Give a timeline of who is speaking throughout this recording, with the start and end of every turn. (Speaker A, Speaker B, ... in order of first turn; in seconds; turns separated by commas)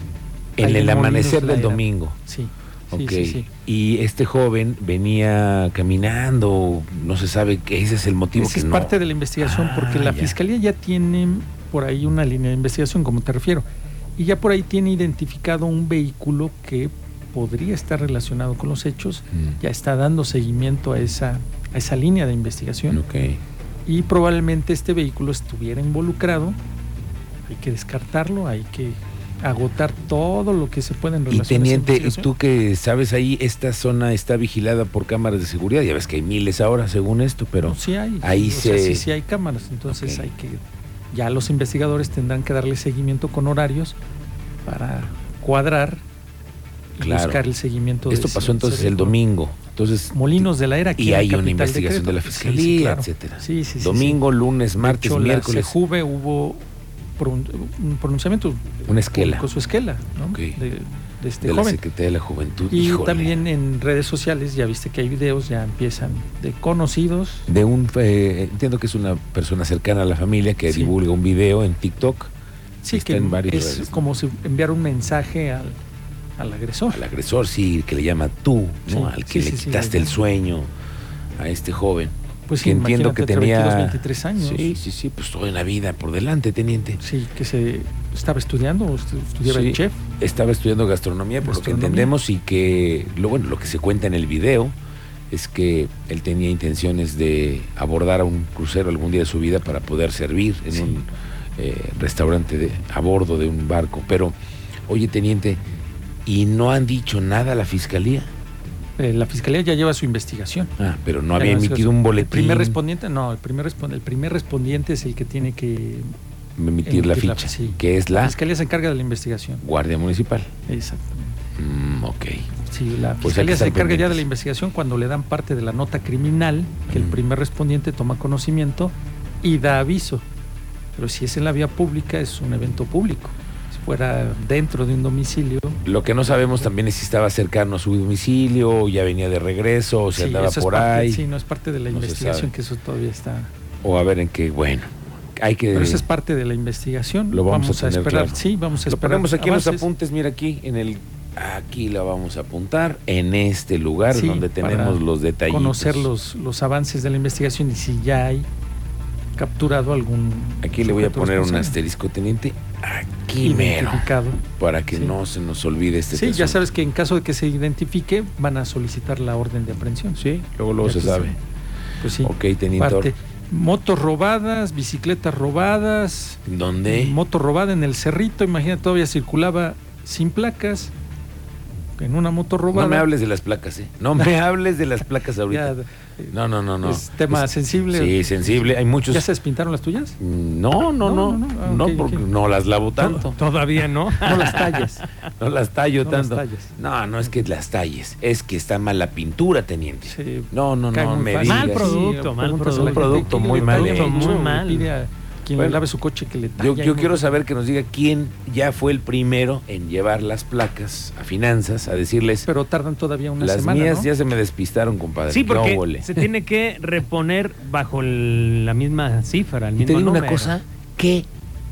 Speaker A: 0.6-2.2, Speaker B: 0.6-3.5, Speaker A: 2.9-10.4, Speaker B: 8.4-13.7, Speaker B: 14.2-23.0, Speaker A: 22.9-23.4, Speaker B: 23.9-26.6, Speaker B: 27.5-32.3, Speaker A: 31.3-39.0, Speaker B: 37.6-44.0, Speaker A: 39.9-40.2, Speaker B: 44.6-46.0, Speaker B: 47.0-49.2, Speaker A: 47.0-47.4, Speaker A: 48.1-55.8, Speaker B: 50.1-54.2, Speaker B: 54.8-56.6, Speaker B: 57.2-61.8, Speaker A: 58.9-59.5, Speaker A: 60.3-60.6, Speaker A: 61.4-63.4, Speaker B: 62.7-67.5, Speaker A: 67.5-72.3, Speaker B: 70.7-71.0, Speaker B: 72.8-75.8, Speaker A: 72.9-73.9, Speaker B: 76.4-77.0, Speaker A: 76.9-80.7, Speaker B: 78.9-80.1, Speaker A: 81.4-87.0, Speaker B: 82.5-84.7, Speaker B: 87.0-90.0, Speaker A: 89.4-94.8, Speaker B: 91.4-92.1, Speaker A: 95.3-104.3, Speaker B: 100.7-101.0, Speaker A: 104.9-105.6, Speaker A: 106.3-108.3, Speaker B: 109.0-110.7, Speaker A: 110.8-112.8, Speaker B: 111.4-116.1, Speaker A: 116.6-118.4, Speaker B: 116.8-119.6, Speaker A: 119.6-120.5, Speaker B: 120.7-121.3, Speaker A: 121.6-122.5, Speaker B: 122.7-130.3, Speaker A: 123.2-124.2, Speaker A: 126.9-127.2, Speaker B: 131.0-135.8, Speaker A: 135.8-141.3, Speaker B: 140.1-143.5, Speaker A: 141.9-142.5, Speaker A: 143.8-146.1, Speaker B: 145.7-149.9, Speaker A: 147.3-156.1, Speaker B: 154.1-158.5, Speaker B: 159.4-161.8, Speaker A: 160.6-166.6, Speaker B: 163.4-165.2, Speaker B: 166.1-170.2, Speaker A: 170.2-171.4, Speaker B: 170.8-171.4, Speaker B: 172.0-180.9, Speaker A: 172.2-173.1, Speaker A: 176.5-177.2, Speaker B: 182.0-183.1, Speaker A: 182.7-185.7, Speaker B: 185.5-190.2, Speaker A: 186.3-189.3, Speaker A: 190.2-193.4, Speaker B: 191.0-192.3, Speaker C: 193.0-194.8, Speaker A: 194.2-194.9, Speaker B: 194.2-195.0, Speaker A: 195.4-202.0, Speaker B: 196.0-197.4, Speaker B: 200.1-207.4, Speaker C: 201.4-204.9, Speaker A: 202.7-204.4, Speaker A: 205.6-205.8, Speaker A: 206.6-212.5, Speaker B: 212.5-214.1, Speaker A: 213.4-216.1, Speaker C: 215.3-220.6, Speaker A: 219.8-221.3